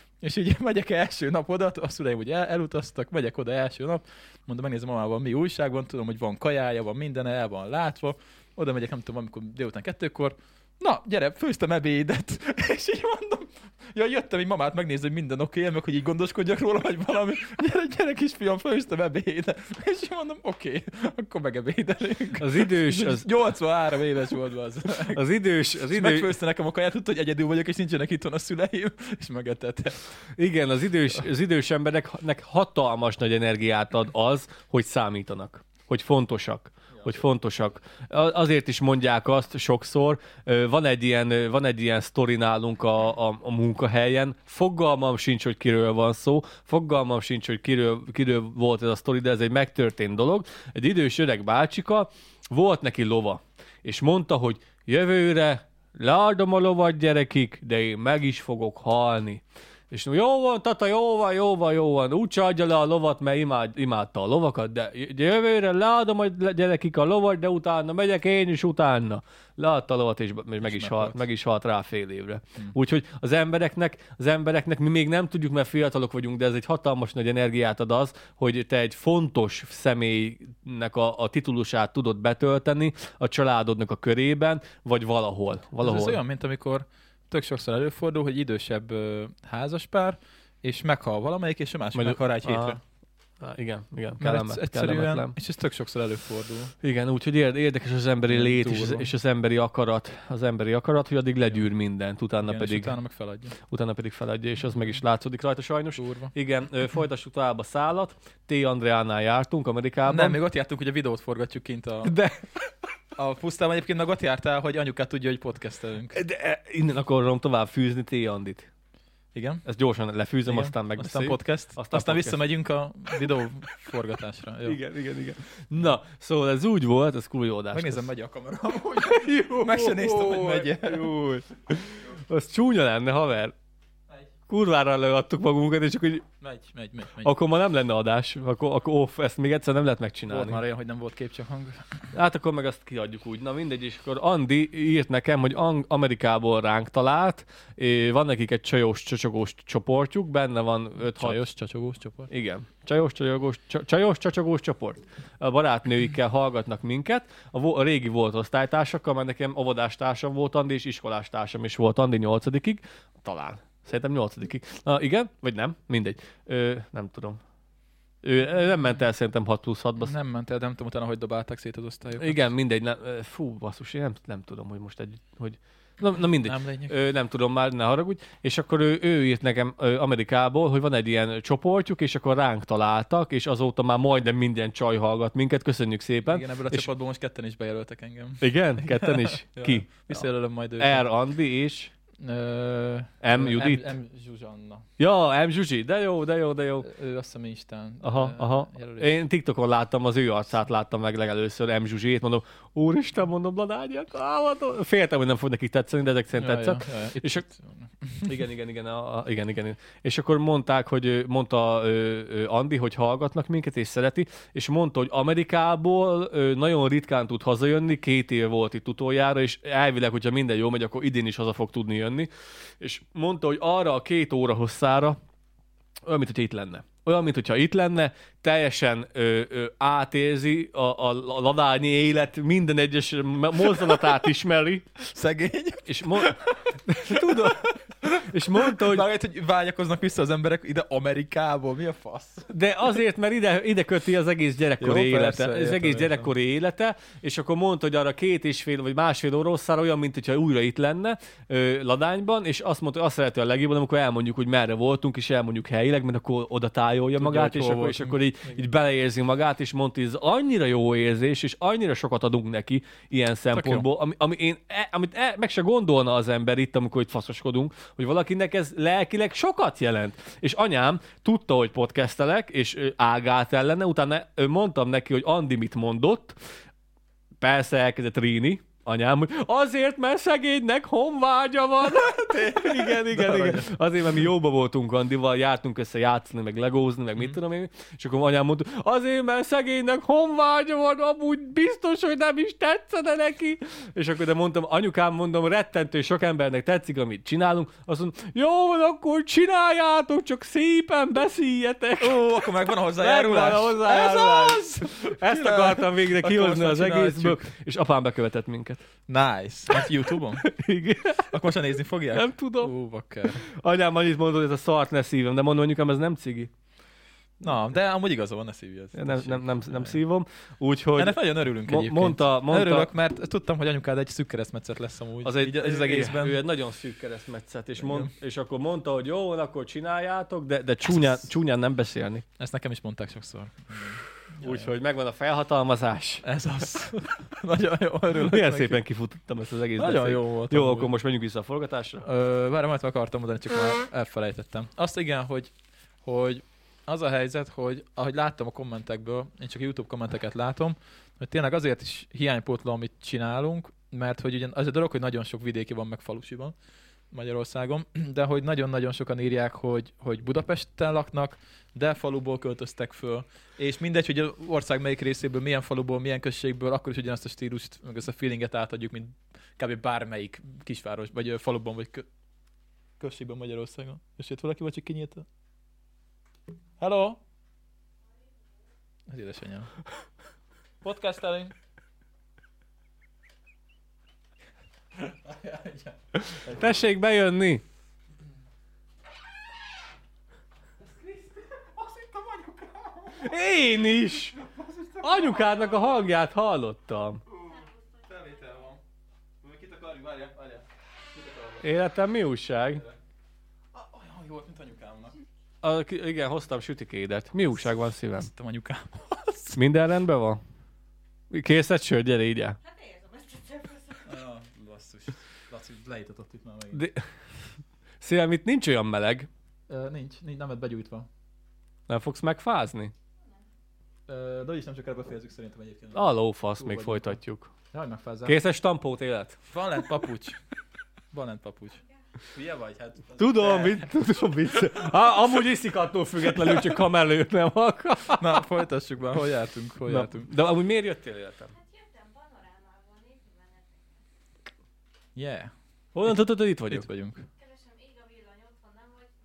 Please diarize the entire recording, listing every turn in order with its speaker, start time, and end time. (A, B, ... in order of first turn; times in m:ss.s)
0:00.2-0:25.2 A
0:22.4-0:23.3 B
0:25.1-0:26.3 B
0:25.9-0:30.1 A
0:30.4-1:26.2 B
1:10.6-1:11.2 A
1:25.8-1:32.8 A
1:32.0-1:32.8 B
1:33.4-1:35.4 B
1:34.2-1:36.7 A
1:36.8-1:42.9 B
1:38.3-1:39.1 A
1:42.4-1:43.6 A
1:43.6-1:50.4 B
1:46.0-1:46.3 A
1:50.1-1:52.2 A
1:52.0-1:52.5 B
1:53.2-1:56.2 A
1:56.1-1:58.7 B
1:59.4-1:59.6 A
1:59.6-2:02.4 B
2:00.5-2:04.8 A
2:04.6-2:08.0 B
2:07.7-2:11.1 A
2:09.0-2:13.6 B
2:14.5-2:16.2 B
2:16.4-2:17.3 A
2:17.2-2:20.6 B
2:20.3-2:22.1 A
2:22.1-2:31.4 B
2:31.0-2:32.3 A
2:32.3-2:47.4 B
2:48.2-2:50.1 B
2:50.0-2:52.4 A
2:52.2-3:06.9 B
2:56.4-2:56.9 A
3:06.3-3:11.1 A
3:08.4-3:10.3 B
3:10.8-3:11.9 B
3:12.2-3:14.9 A
3:13.2-3:13.9 B
3:15.0-3:16.9 B
3:16.8-3:19.2 A
3:18.0-3:27.4 B
3:26.4-3:28.3 A
3:28.2-3:45.2 B
3:46.0-3:54.9 B
3:55.0-4:02.5 A
3:55.9-3:59.1 B
4:02.5-4:36.4 B
4:04.8-4:06.3 A
4:17.2-4:18.6 A
4:23.5-4:23.9 A
4:37.4-5:02.2 B
4:42.0-4:43.8 A
5:02.0-5:07.5 A
5:03.0-5:08.8 B
5:09.1-5:10.5 A
5:10.4-5:11.3 B
5:11.3-5:13.5 A
5:12.1-5:12.7 B
5:13.4-5:16.5 B
5:17.4-5:20.0 A
5:19.0-5:22.9 B
5:21.0-5:26.4 A
5:25.2-5:32.2 B
5:27.8-5:28.1 A
5:32.4-5:34.7 A
5:34.4-5:36.2 B
5:36.2-5:38.8 A
5:38.2-5:42.0 B
5:39.8-5:40.9 A
5:42.0-5:45.5 A
5:46.0-5:56.5 A
5:57.1-6:12.1 A
6:13.0-6:15.3 A
6:16.8-6:17.2 A
6:19.1-6:19.7 A
6:20.8-6:21.6 A
6:25.0-6:26.8 A
6:26.3-6:27.6 B
6:30.8-6:33.4 A
6:33.2-6:34.4 B
6:34.3-6:35.8 A
6:35.0-6:37.2 B
6:37.3-6:38.8 A
6:37.4-6:38.5 C
6:39.4-6:41.6 A
6:41.6-6:42.8 B
6:43.7-6:45.2 A
6:45.6-6:48.3 B
6:48.2-6:49.6 A
6:49.6-6:50.4 B
6:51.3-6:52.6 B
6:52.6-6:54.2 C
6:54.1-6:56.9 A
6:56.7-6:57.0 B
6:58.0-6:59.3 B
6:59.7-7:01.1 A
7:01.9-7:02.9 B
7:04.1-7:07.2 A
7:05.9-7:07.5 B
7:07.7-7:08.4 A
7:08.3-7:09.4 B
7:09.5-7:10.4 A
7:11.1-7:11.8 A
7:12.3-7:13.9 A
7:13.2-7:18.4 B
7:18.1-7:20.3 A
7:19.9-7:21.5 B
7:21.5-7:24.0 C
7:25.2-7:25.5 A
7:26.0-7:26.9 B
7:26.7-7:27.3 A
7:27.4-7:29.1 C